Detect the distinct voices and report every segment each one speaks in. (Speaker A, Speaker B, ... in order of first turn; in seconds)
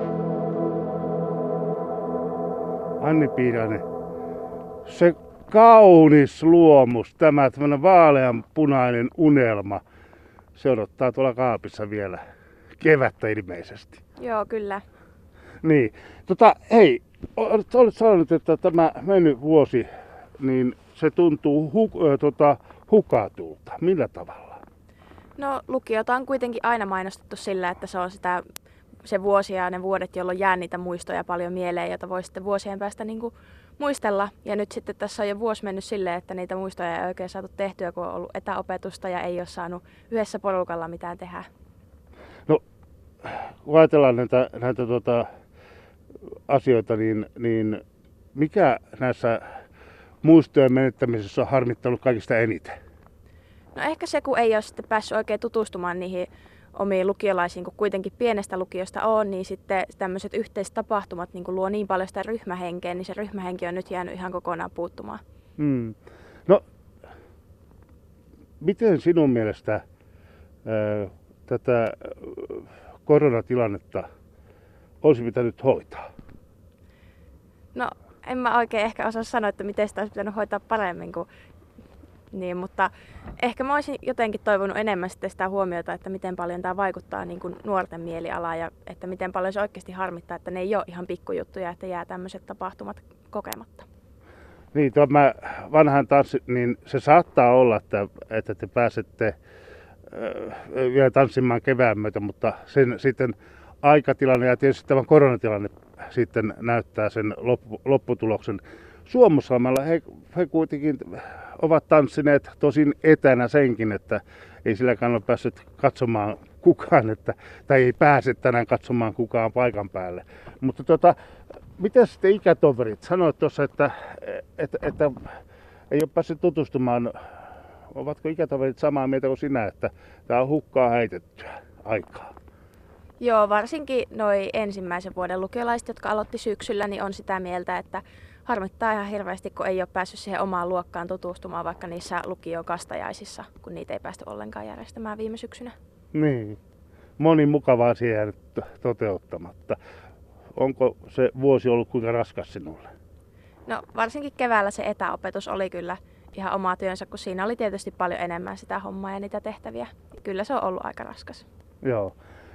Speaker A: 3.0-3.8, 4.9-9.8, 10.6-12.2, 12.8-14.0, 15.6-19.9, 20.4-24.6, 43.2-45.3, 46.5-47.8, 48.4-49.4, 50.2-52.8, 65.6-66.6, 68.6-69.8, 70.7-74.1, 75.0-76.1, 94.7-99.3, 100.1-121.2, 121.8-125.2, 125.9-127.1, 127.9-132.3, 146.1-146.6, 147.2-149.8, 150.6-152.9, 161.8-162.1
Speaker B: 14.2-14.8, 25.4-28.4, 29.0-41.5, 53.8-65.2, 77.7-81.3, 82.3-93.9, 133.2-145.8, 153.7-161.5